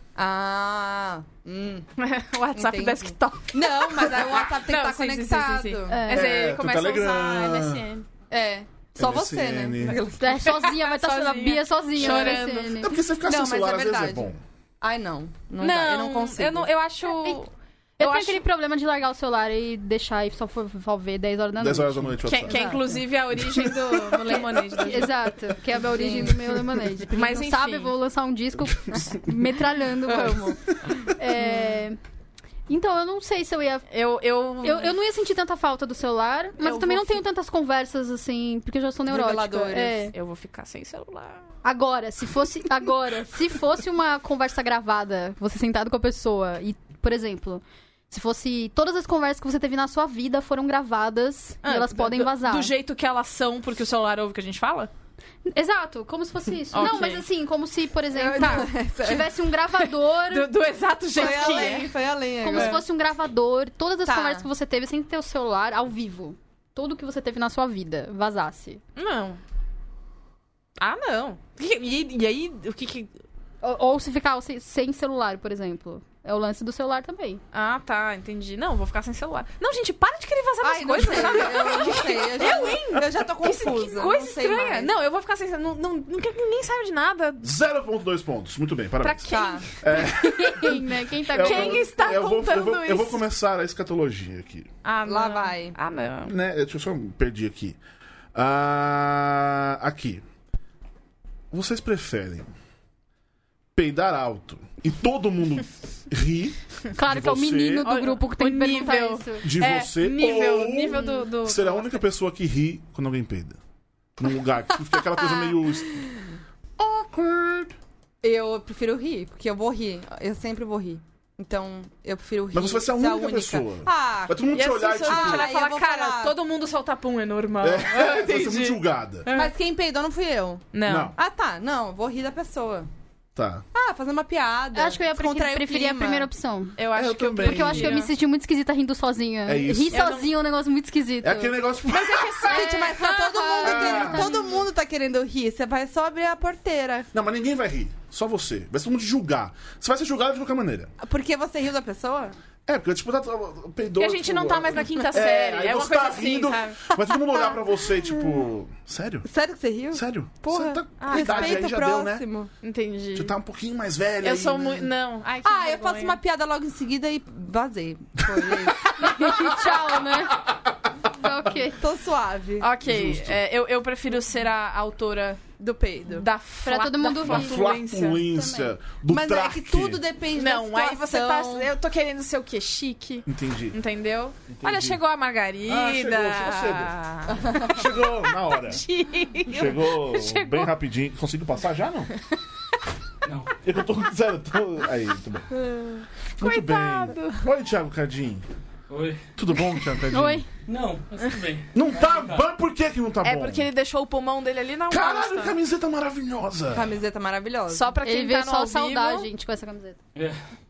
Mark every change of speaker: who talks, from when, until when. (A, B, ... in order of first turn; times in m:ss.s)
0:00.2-0:01.9 A
0:02.0-0:08.1 B
0:02.5-0:06.1 A
0:05.9-0:06.3 C
0:06.1-0:07.9 D
0:08.3-0:10.6 A
0:09.0-0:10.0 D
0:10.2-0:13.0 C
0:10.4-0:12.7 B
0:12.0-0:12.4 A
0:12.7-0:14.4 D
0:13.2-0:16.7 A
0:15.6-0:18.4 B
0:18.0-0:22.8 C
0:21.6-0:22.8 D
0:22.2-0:25.1 B
0:24.8-0:32.0 C
0:25.8-0:26.4 A
0:27.1-0:27.9 B
0:30.1-0:31.0 A
0:32.7-0:33.9 C
0:33.9-0:35.0 B
0:34.6-0:40.2 C
0:36.6-0:37.2 B
0:39.1-0:40.1 A
0:40.1-0:41.4 B
0:41.6-0:52.7 C
0:51.6-0:54.9 B
0:55.5-1:00.5 C
0:56.7-0:57.2 B
0:58.1-0:59.3 A
0:58.4-0:58.7 B
1:00.3-1:02.0 B
1:01.1-1:02.8 A
1:01.2-1:01.8 C
1:02.4-1:08.8 C
1:02.5-1:02.8 B
1:04.1-1:04.5 A
1:09.0-1:09.4 B
1:10.8-1:13.1 B
1:13.6-1:17.4 C
1:17.5-1:27.5 B
1:20.6-1:24.9 A
1:27.4-1:34.7 D
1:29.0-1:30.1 B
1:29.3-1:29.7 A
1:30.0-1:32.2 C
1:31.4-1:33.2 B
1:34.8-1:36.3 B
1:35.1-1:35.8 A
1:36.2-1:37.8 D
1:38.4-1:40.2 D
1:41.5-1:42.5 D
1:43.8-1:47.9 D
1:46.9-1:49.4 C
1:47.8-1:52.0 B
1:49.4-1:53.6 D
1:50.9-1:51.2 C
1:54.2-1:56.0 D
1:55.0-1:56.2 A
1:56.8-1:57.8 D
1:58.2-2:04.5 A
2:02.5-2:05.5 D
2:04.5-2:09.5 B
2:05.0-2:06.4 A
2:07.6-2:09.3 D
2:09.3-2:12.9 A
2:10.7-2:11.1 B
2:10.9-2:11.2 D
2:13.4-2:13.6 D
2:13.7-2:16.3 A
2:14.7-2:16.8 C
2:16.8-2:18.1 B
2:16.9-2:18.0 D
2:17.4-2:21.6 C
2:19.5-2:20.1 D
2:19.9-2:20.3 B
2:21.2-2:22.6 D
2:21.9-2:24.2 B
2:22.4-2:27.1 A
2:22.5-2:24.6 C
2:23.6-2:24.3 D
2:27.1-2:30.9 D
2:31.0-2:32.4 A
2:32.7-2:39.3 D
2:34.0-2:36.8 B
2:37.1-2:37.6 A
2:38.1-2:38.4 A
2:39.2-2:42.5 A
2:39.9-2:42.2 D
2:41.0-2:41.7 B
2:42.6-2:43.3 B
2:43.2-2:44.9 D
2:44.2-2:46.2 B
2:45.4-2:49.6 A
2:49.0-2:50.4 C
2:51.2-2:51.8 C
2:51.8-2:52.7 A
2:52.6-2:55.4 B
2:52.8-2:53.4 D
2:55.6-2:56.3 A
2:56.1-2:58.2 B
2:56.6-2:57.8 C
2:57.2-3:00.0 D
2:58.3-2:58.7 C
2:59.1-3:01.7 A
3:00.4-3:07.9 B
3:03.3-3:03.8 D
3:04.5-3:05.0 D
3:05.7-3:06.9 D
3:07.3-3:07.7 A
3:07.6-3:08.8 D
3:08.4-3:10.7 B
3:09.5-3:12.1 D
3:13.2-3:13.6 E
3:13.6-3:15.5 D
3:16.4-3:18.4 D
3:16.4-3:17.5 B
3:18.9-3:19.2 E
3:19.4-3:20.4 D
3:20.1-3:20.5 C
3:20.6-3:22.5 E
3:21.7-3:23.7 D
3:23.2-3:25.6 B
3:24.9-3:27.0 D
3:26.7-3:27.9 A
3:27.7-3:29.3 B
3:28.0-3:30.0 C